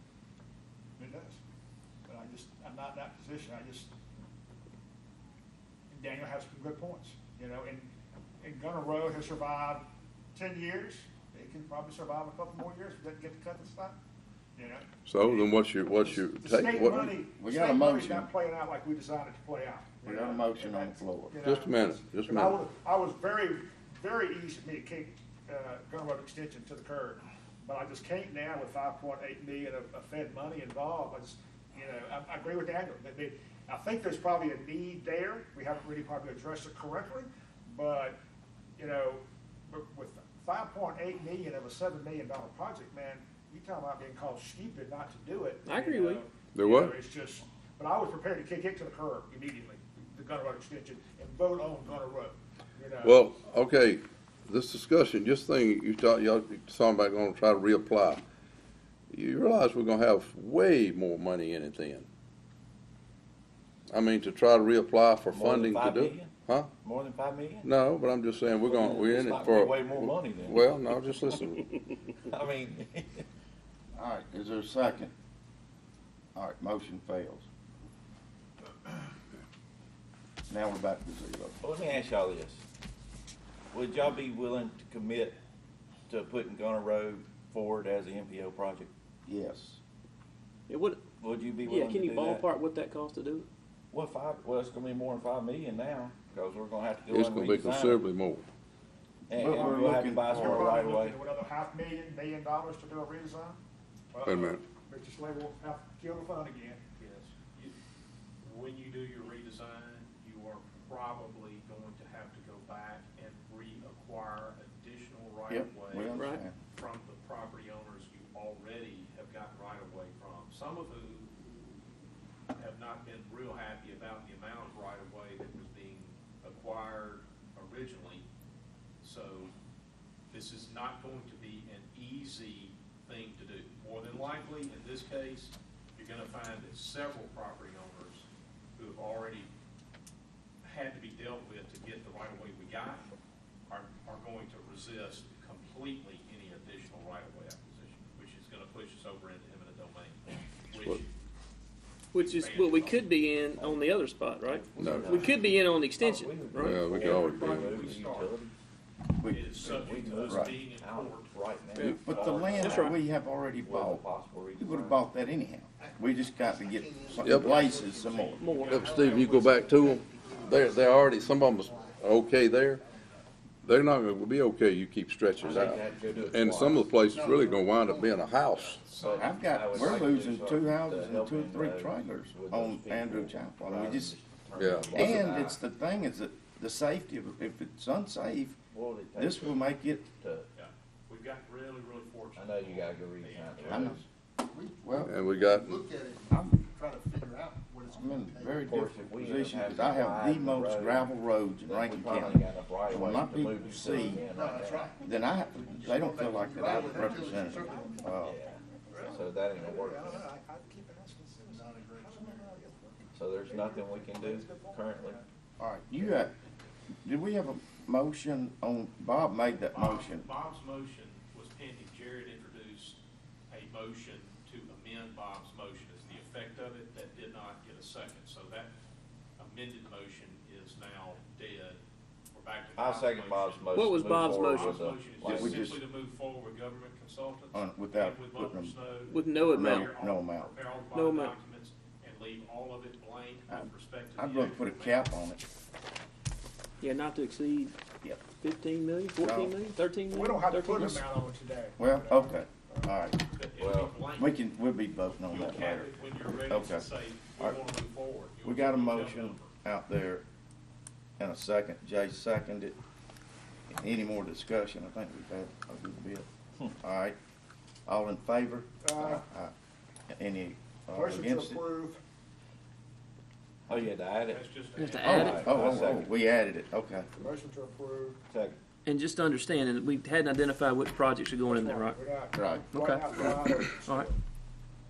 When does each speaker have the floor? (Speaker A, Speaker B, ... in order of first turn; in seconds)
Speaker A: 1.0-1.4, 2.0-3.9, 5.9-13.9, 14.6-38.2, 38.8-53.2, 100.3-103.6, 104.1-106.8, 206.4-208.1, 208.9-215.2, 250.1-252.9, 268.8-269.2, 270.9-272.0, 277.2-278.2, 281.4-284.2
Speaker B: 15.1-17.2, 21.4-22.6, 46.5-46.9, 53.0-58.2, 59.1-62.1, 63.9-66.7, 67.6-71.8, 97.1-98.5, 104.2-104.6, 154.8-155.2, 156.6-157.9, 167.2-167.5, 168.6-172.8, 173.6-178.8, 184.5-185.1, 195.0-195.8
Speaker C: 17.2-18.3, 20.0-21.4, 73.9-75.1, 76.3-77.5, 80.5-81.6, 89.2-89.8, 99.3-100.6, 115.5-116.5, 159.2-159.5, 160.2-160.6, 161.9-164.0, 164.6-168.4, 179.0-184.1, 184.9-188.6, 189.1-190.1, 193.7-194.0, 194.8-195.2, 196.3-196.6, 197.9-204.2, 205.0-208.3, 215.6-216.3, 217.0-220.3, 235.2-235.8, 237.5-238.7, 239.5-240.5, 243.5-245.4, 249.2-249.5, 250.8-251.0, 251.8-253.2, 254.2-257.6, 258.4-260.2, 261.2-262.8, 263.7-267.2, 267.9-269.5, 270.1-271.6, 275.0-277.1, 282.3-283.3
Speaker D: 45.6-46.2, 90.7-91.0, 91.6-93.5, 116.1-116.4, 152.1-157.0, 162.6-163.0, 168.4-168.8, 233.7-234.8, 239.1-239.9, 240.9-241.3, 246.8-247.7, 248.3-251.0, 274.8-275.5, 278.9-282.0, 282.7-284.1
Speaker E: 65.3-67.7, 68.6-71.0, 72.1-73.2, 81.6-82.6, 83.7-85.4, 86.1-88.9, 91.2-92.5, 93.9-98.0, 99.3-101.2, 153.6-153.8, 154.4-158.5, 159.6-162.9, 163.6-165.0, 175.4-176.9, 178.9-185.6, 188.7-189.6, 190.2-190.5, 192.3-194.0, 198.6-201.1, 201.7-204.9, 208.2-210.2, 213.1-215.2, 232.7-235.7, 253.6-254.0, 273.7-274.4, 275.0-276.1, 278.3-278.6
Speaker F: 107.0-107.7, 108.4-121.3, 122.5-128.3, 129.0-129.5, 130.3-139.5, 140.6-143.1, 143.7-151.1, 152.2-153.2, 156.9-158.4, 159.2-162.7, 168.5-169.1, 178.5-179.3, 184.6-185.4, 190.6-194.1, 219.7-228.7, 229.4-231.8, 232.3-245.1, 253.2-254.4, 255.3-259.5, 274.3-275.9
Speaker G: 165.8-172.8, 177.0-178.3, 194.5-198.6, 204.0-208.1, 211.4-212.5